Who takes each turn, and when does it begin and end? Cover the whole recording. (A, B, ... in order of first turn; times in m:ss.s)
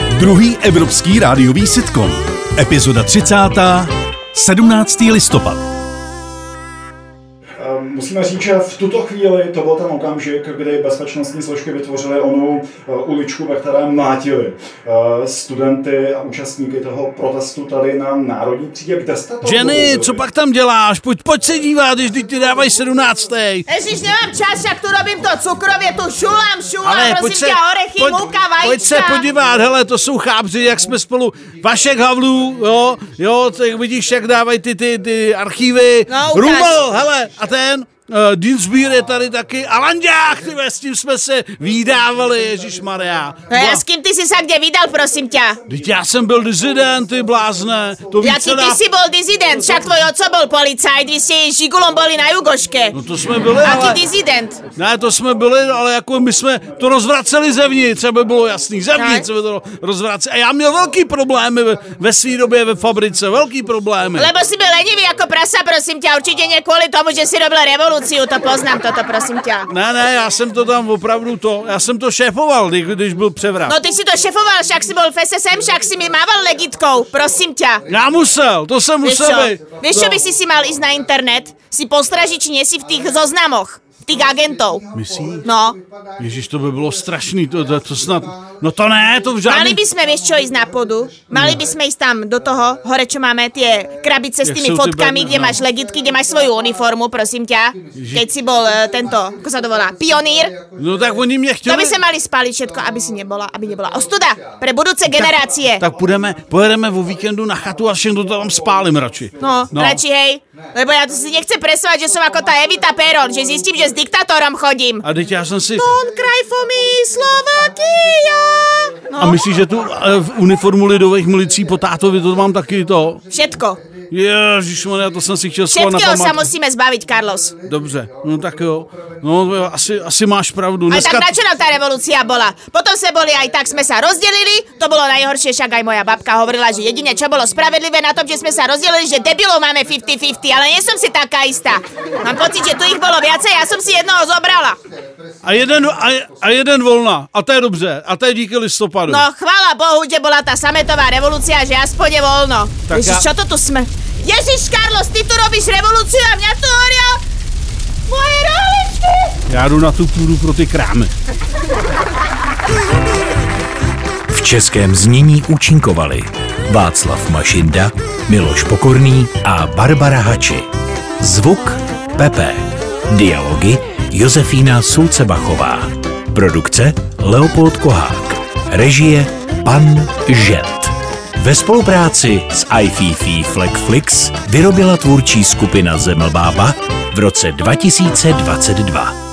0:00.1-0:05.6 A
0:07.6-0:20.2 B
0:19.4-0:23.7 C
0:23.7-0:29.3 D
0:26.8-0:43.8 C
0:36.1-0:36.8 D
0:43.5-0:45.6 D
0:45.7-0:48.8 C
0:48.2-0:53.0 D
0:52.9-0:54.0 C
0:53.6-0:54.6 D
0:54.7-1:04.3 C
0:58.9-0:59.3 D
1:04.2-1:09.7 D
1:09.7-1:13.8 C
1:13.7-1:17.8 D
1:17.9-1:20.2 C
1:19.0-1:24.8 D
1:24.9-1:25.5 C
1:25.4-1:25.8 D
1:26.2-1:29.8 C
1:29.4-1:40.6 D
1:31.3-1:31.7 C
1:34.4-1:35.6 C
1:37.9-1:38.3 C
1:40.7-1:42.0 C
1:41.6-1:45.8 D
1:45.1-1:50.0 C
1:49.4-1:55.1 D
1:55.0-1:55.9 C
1:55.8-1:59.4 D
1:59.2-2:03.2 C
2:03.3-2:03.8 D
2:04.1-2:06.5 C
2:05.7-2:07.6 D
2:07.6-2:11.3 C
2:10.9-2:24.8 D
2:25.4-2:29.2 C
2:29.1-2:37.2 D
2:32.9-2:33.2 C
2:38.1-2:39.4 D
2:39.5-2:41.1 C
2:44.3-2:50.7 E
2:51.2-3:09.2 E